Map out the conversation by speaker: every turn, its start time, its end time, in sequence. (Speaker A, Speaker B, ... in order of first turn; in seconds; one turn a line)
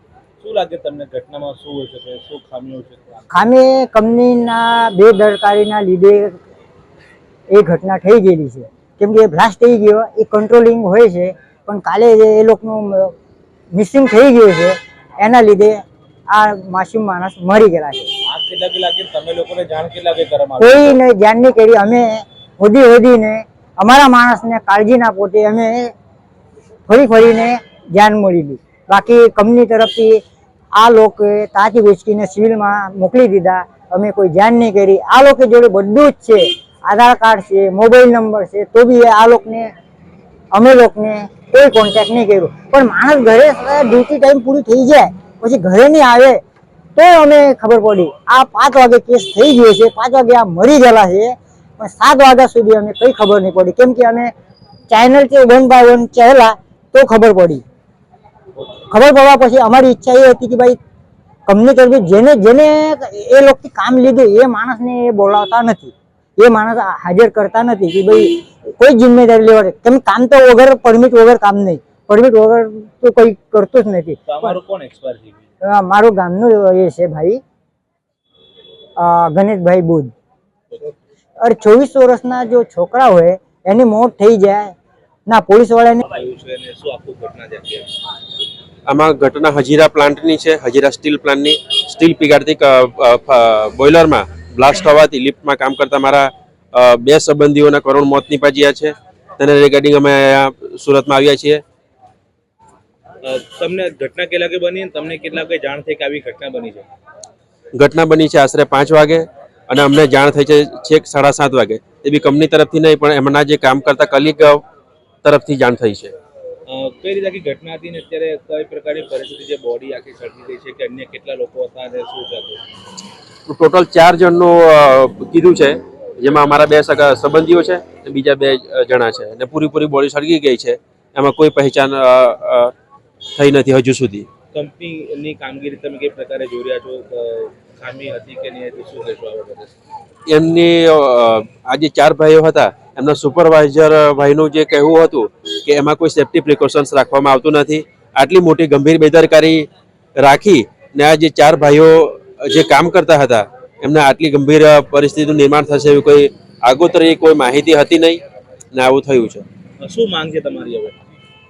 Speaker A: 0.4-3.2
Speaker B: 3.3-6.4
Speaker B: 7.5-13.1
Speaker B: 13.7-18.1
Speaker A: 18.3-21.0
Speaker B: 20.6-25.9
Speaker B: 26.9-30.2
Speaker B: 30.8-39.7
Speaker B: 40.5-46.4
Speaker B: 47.0-54.3
Speaker B: 54.9-57.6
Speaker B: 58.9-60.8
Speaker B: 61.5-74.6
Speaker A: 74.3-75.4
Speaker B: 75.6-77.4
Speaker B: 79.0-80.1
Speaker B: 81.4-84.7
Speaker B: 85.3-86.0
Speaker A: 86.1-87.9
Speaker C: 88.9-101.6
Speaker A: 103.2-106.9
Speaker C: 107.8-114.6
Speaker C: 115.2-116.2
Speaker A: 116.7-122.6
Speaker C: 123.5-132.7
Speaker C: 133.3-134.3
Speaker A: 134.5-139.7
Speaker C: 140.3-158.2
Speaker C: 158.7-159.4
Speaker A: 159.8-161.0